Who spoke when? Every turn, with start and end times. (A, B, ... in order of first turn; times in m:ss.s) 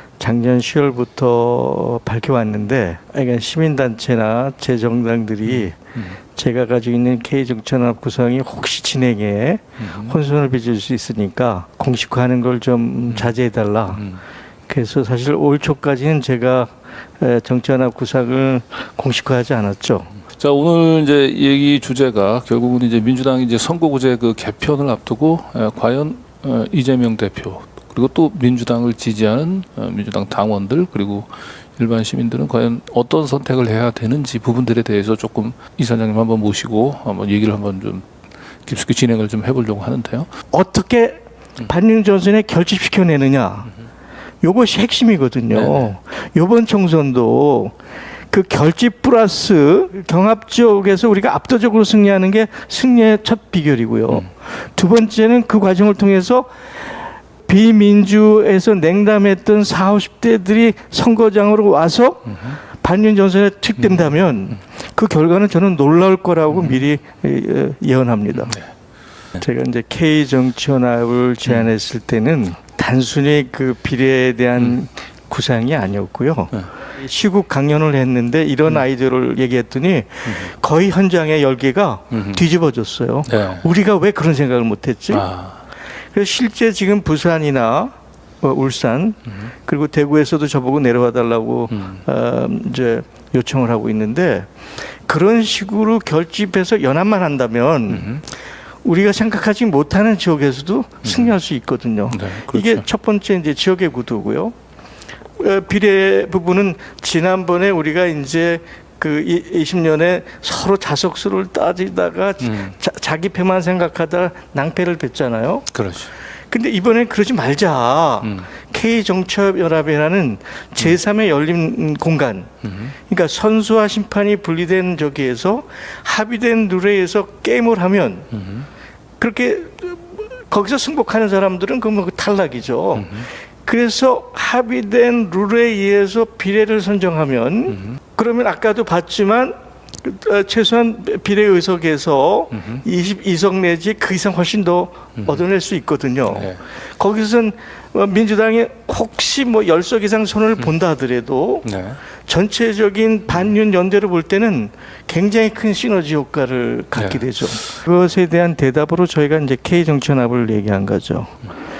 0:00.2-0:05.8 A
0:06.3-0:14.0 A
0:09.8-0:10.1 B
0:14.7-0:20.1 A
0:20.4-0:38.1 B
0:38.6-0:40.3 B
0:40.5-0:43.7 A
0:44.4-0:47.7 A
0:45.5-0:45.9 B
0:48.3-0:56.5 A
0:57.4-1:08.6 A
1:09.4-1:25.3 A
1:22.1-1:22.4 B
1:23.3-1:23.6 B
1:25.1-1:25.6 B
1:26.1-1:34.5 A
1:35.0-1:38.2 A
1:37.9-1:38.2 B
1:38.8-1:44.5 A
1:41.0-1:41.3 B
1:42.1-1:42.8 B
1:45.4-1:55.7 A
1:52.4-1:52.7 B
1:55.7-1:56.1 B
1:56.5-2:08.3 A
2:02.7-2:02.9 B
2:08.4-2:08.7 B
2:09.2-2:31.7 A
2:13.0-2:13.3 B
2:26.3-2:26.6 B
2:31.6-2:32.0 B
2:32.2-2:41.3 A
2:37.0-2:37.2 B